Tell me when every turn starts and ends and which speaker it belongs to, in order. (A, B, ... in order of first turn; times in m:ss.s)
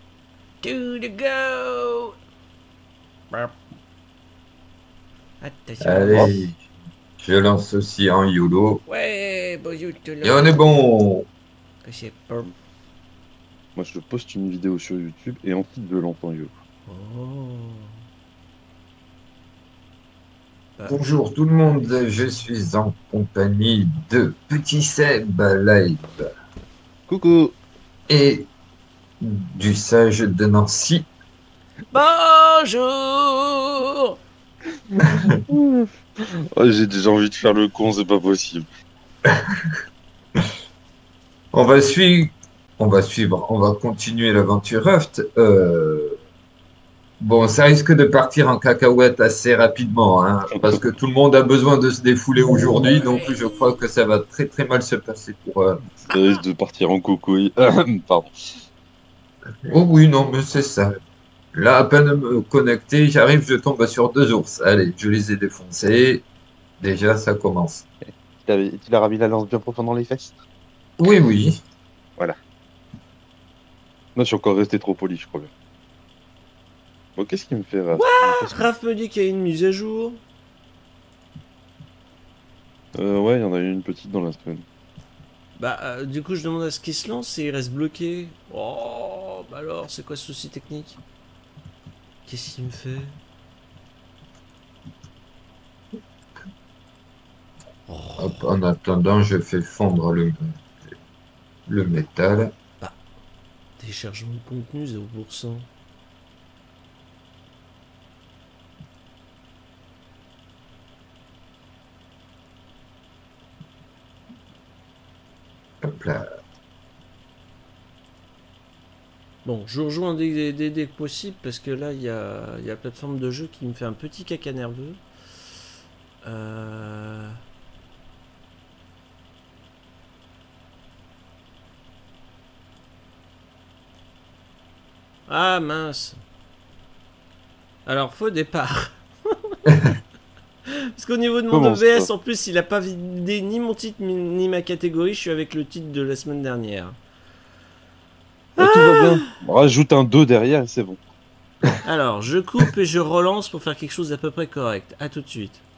0:00.6-0:02.1 A
0:05.4-0:06.3 A
0:05.8-0:06.6 B
0:07.2-0:08.8 B
0:08.9-0:10.6 A
0:10.2-0:11.2 B
0:11.8-0:12.5 A
0:13.8-0:16.5 C
0:16.9-0:17.9 A
0:20.8-0:21.2 A
0:20.8-0:26.3 B
0:21.7-0:22.5 A
0:27.1-0:27.6 C
0:28.1-0:28.5 B
0:29.2-0:31.1 B
0:31.9-0:34.2 A
0:35.5-0:35.9 C
0:36.6-0:38.6 C
0:41.5-0:46.2 B
0:47.2-0:55.8 B
0:52.9-0:53.8 A
0:56.1-0:58.3 C
0:59.7-1:00.9 B
1:01.5-1:06.2 B
1:06.8-1:07.8 B
1:08.1-1:10.4 C
1:11.0-1:11.5 B
1:14.2-1:15.5 C
1:17.2-1:18.6 C
1:17.9-1:20.2 A
1:23.0-1:24.6 C
1:25.6-1:31.0 A
1:32.2-1:33.2 A
1:37.9-1:38.4 A
1:38.2-1:40.5 B
1:41.7-1:42.5 B
1:43.8-1:45.7 A
1:55.8-1:56.2 B
1:59.4-2:05.0 A
2:06.2-2:07.4 A
2:15.3-2:16.2 A
2:17.8-2:19.6 A
2:20.9-2:27.0 A
2:21.5-2:22.1 C
2:28.6-2:29.2 A
2:28.6-2:31.0 C
2:31.8-2:35.6 A